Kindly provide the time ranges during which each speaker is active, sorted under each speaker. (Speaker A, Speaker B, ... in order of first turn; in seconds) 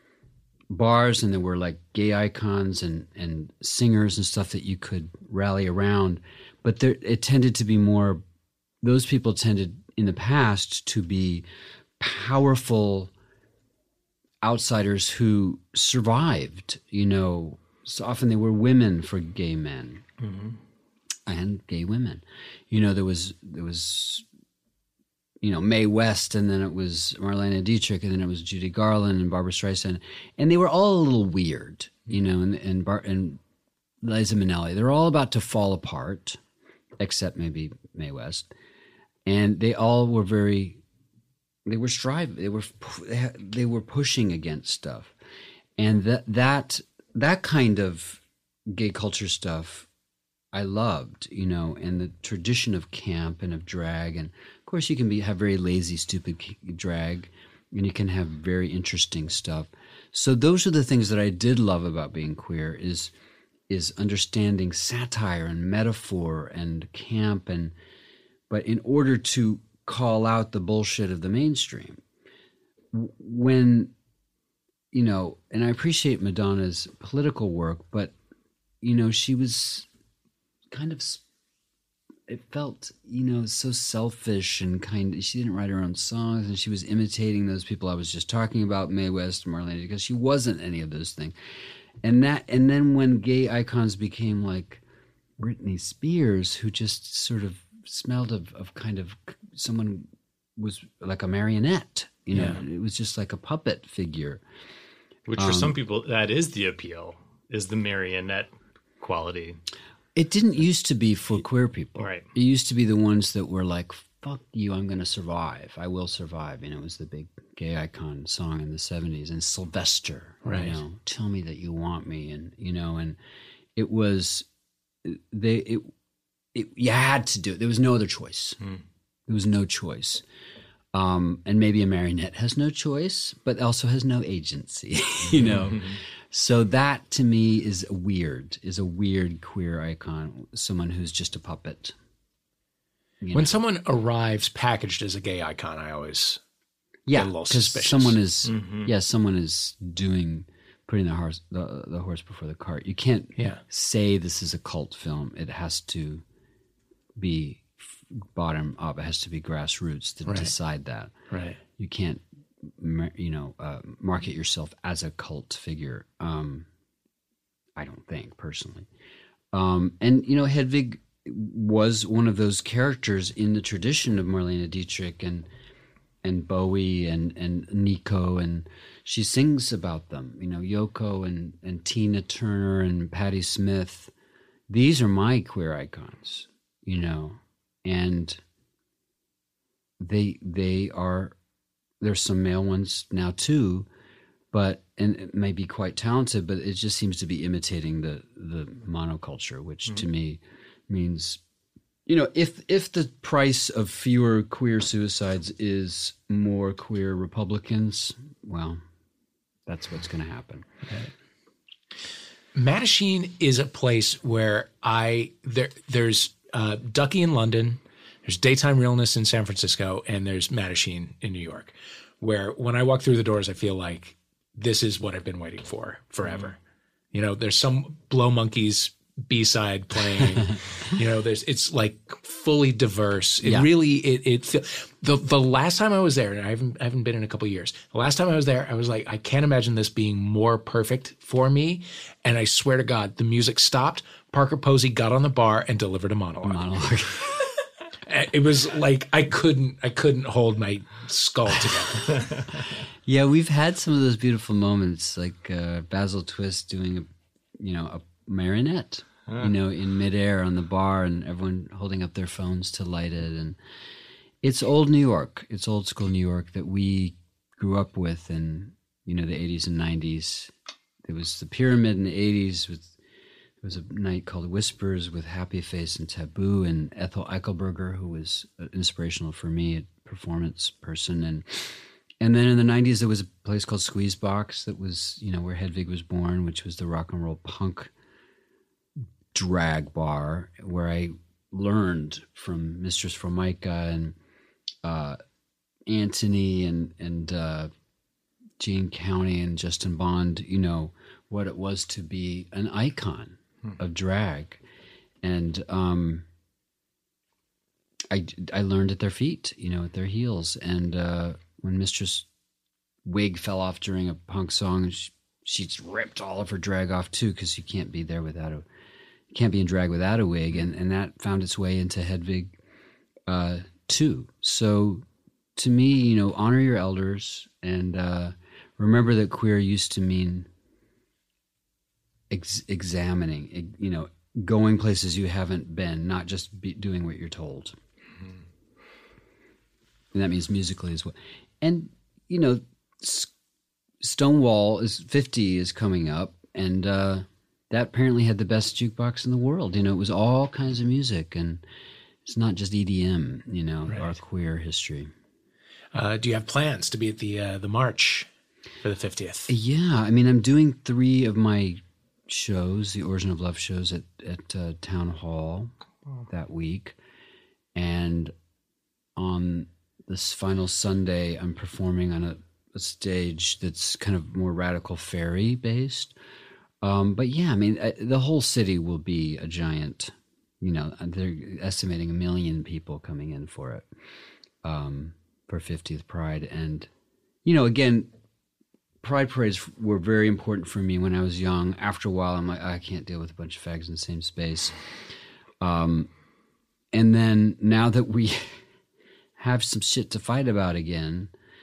Speaker A: 0.7-8.2, 8.8-11.4, 12.0-13.1, 14.4-20.0, 21.2-24.2, 25.4-33.4, 34.0-36.4, 37.0-38.5, 39.2-40.8, 41.6-45.1, 45.8-49.9, 50.5-63.1, 63.7-67.7, 68.5-72.0, 72.9-73.9, 74.9-78.1, 78.8-79.9, 80.7-81.2, 82.3-91.3, 92.0-94.8, 95.4-104.4, 105.4-105.8, 110.1-123.2, 123.8-124.5, 125.0-125.9, 126.5-128.6, 129.3-130.2, 130.9-141.9, 143.2-143.6, 147.1-156.2, 157.2-161.1, 161.7-166.7, 167.8-168.9, 169.5-175.5, 176.2-184.1, 184.7-188.4, 190.0-191.3, 192.0-193.9, 194.5-201.4, 202.1-208.8, 209.7-210.7, 233.4-233.7, 246.4-247.4, 253.1-263.6, 264.4-270.5, 271.0-272.9, 273.6-287.9, 289.3-294.2, 294.8-295.2, 295.9-297.7, 298.6-304.6, 305.2-306.2, 308.1-312.3, 313.0-318.6, 319.3-322.6, 323.3-325.0, 325.6-330.5, 332.3-337.8, 340.1-343.3, 344.0-351.6, 352.2-355.1, 359.5-365.7, 366.3-367.0, 367.7-368.3, 369.1-376.1, 376.8-383.9, 384.6-386.9, 387.4-388.1, 389.0-394.7, 395.6-396.1, 396.9-398.6, 399.4-401.3
Speaker B: 20.2-20.6, 105.3-109.6, 112.0-112.3, 135.5-136.0, 148.4-148.9, 226.2-226.5, 252.2-252.4, 259.3-259.5
Speaker C: 102.3-102.6, 120.4-120.8, 143.3-146.4, 147.1-148.2, 153.4-153.6, 160.3-160.5, 161.3-161.6, 212.5-226.6, 227.1-246.7, 248.1-252.3, 355.9-358.3, 358.8-359.5